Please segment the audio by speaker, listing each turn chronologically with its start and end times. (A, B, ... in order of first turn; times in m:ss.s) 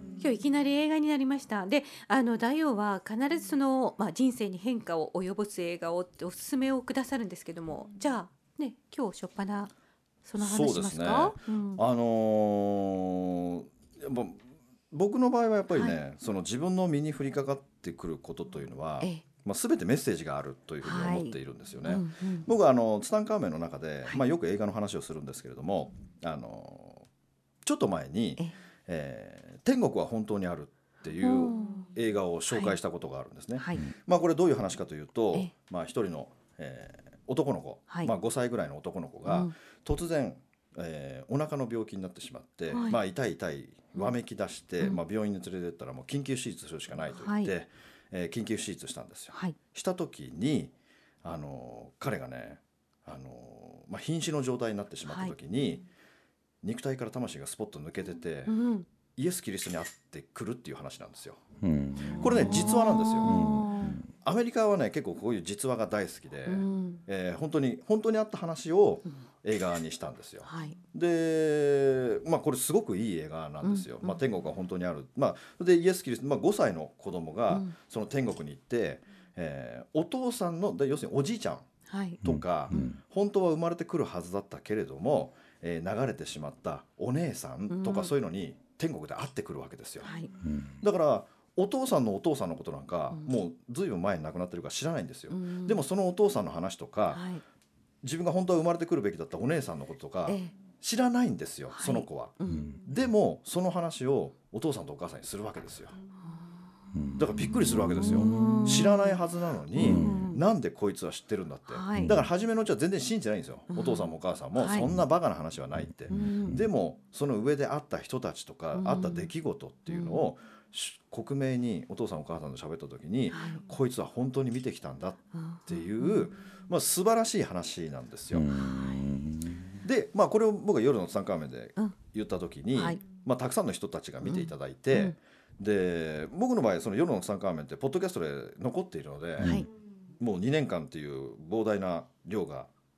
0:00.2-0:09.7 A
0:10.2-0:11.8 A
0:10.4-0:14.4 B
0:14.9-0:27.1 B
0:15.7-0:16.0 A
0:20.8-0:22.5 A
0:27.6-0:55.9 B
0:31.2-0:31.9 A
0:33.6-0:33.9 A
0:42.7-0:43.0 A
0:47.2-0:47.5 A
0:55.1-0:55.3 A
0:56.6-0:58.5 B
0:58.5-0:58.9 A
0:59.2-1:01.4 B
1:01.6-1:04.1 C
1:02.1-1:04.0 A
1:02.1-1:03.6 B
1:04.2-1:21.7 B
1:06.5-1:07.0 A
1:10.4-1:10.8 A
1:13.6-1:14.2 A
1:21.9-1:22.9 A
1:22.2-1:30.1 B
1:22.2-1:23.0 C
1:27.7-1:28.1 A
1:30.0-1:30.3 A
1:30.4-1:30.7 C
1:30.8-1:37.2 B
1:35.3-1:35.8 A
1:37.1-1:37.4 A
1:38.0-1:46.0 B
1:40.3-1:40.5 A
1:41.7-1:42.7 A
1:47.0-1:48.7 C
1:47.2-2:08.5 B
1:48.0-1:49.2 A
1:49.8-1:50.4 A
1:49.8-1:50.2 C
1:51.7-1:52.2 A
1:53.7-1:54.9 A
1:56.1-1:56.6 A
1:58.7-1:59.3 A
1:59.9-2:00.3 A
2:03.3-2:03.6 A
2:05.3-2:06.2 A
2:08.3-2:09.6 C
2:08.5-2:09.1 A
2:09.8-2:19.6 B
2:12.8-2:13.0 A
2:14.2-2:15.2 A
2:19.4-2:19.6 C
2:19.4-2:19.7 A
2:20.2-2:22.7 B